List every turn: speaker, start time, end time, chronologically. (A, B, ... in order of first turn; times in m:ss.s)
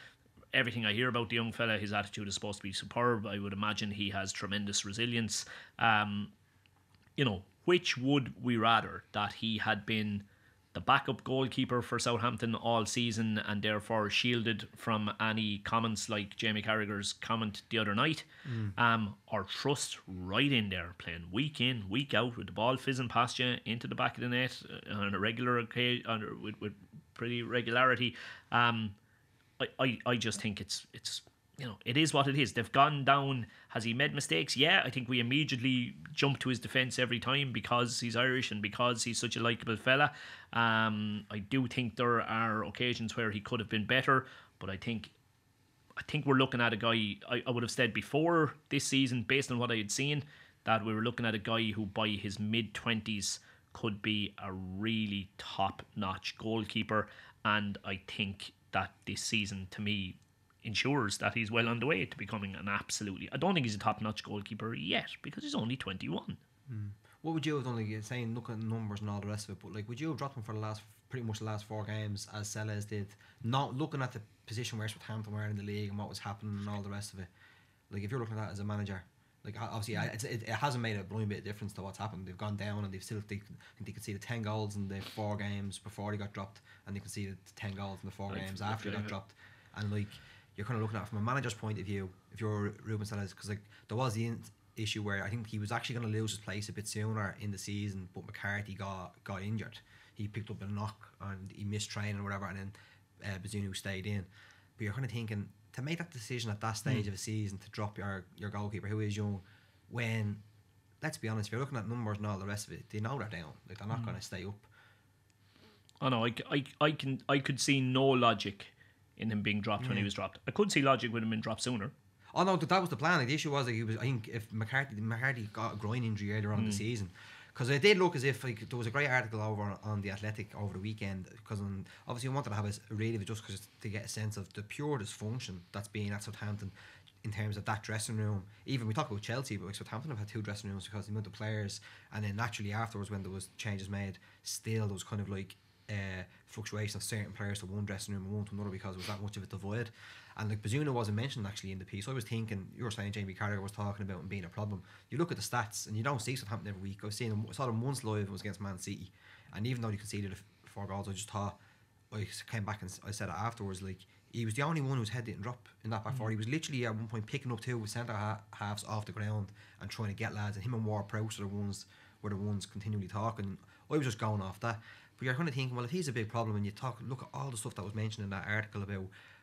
0:00.5-0:06.3 A
0:07.2-0:29.0 A
0:18.5-0:18.7 B
0:29.6-0:45.1 A
0:46.0-1:06.4 A
1:06.7-1:17.3 B
1:17.9-1:50.4 B
1:28.3-1:29.1 A
1:51.0-1:54.7 B
1:56.0-2:01.9 A
1:59.8-2:00.1 B
2:02.3-2:41.6 B
2:06.6-2:06.8 A
2:42.1-2:59.1 B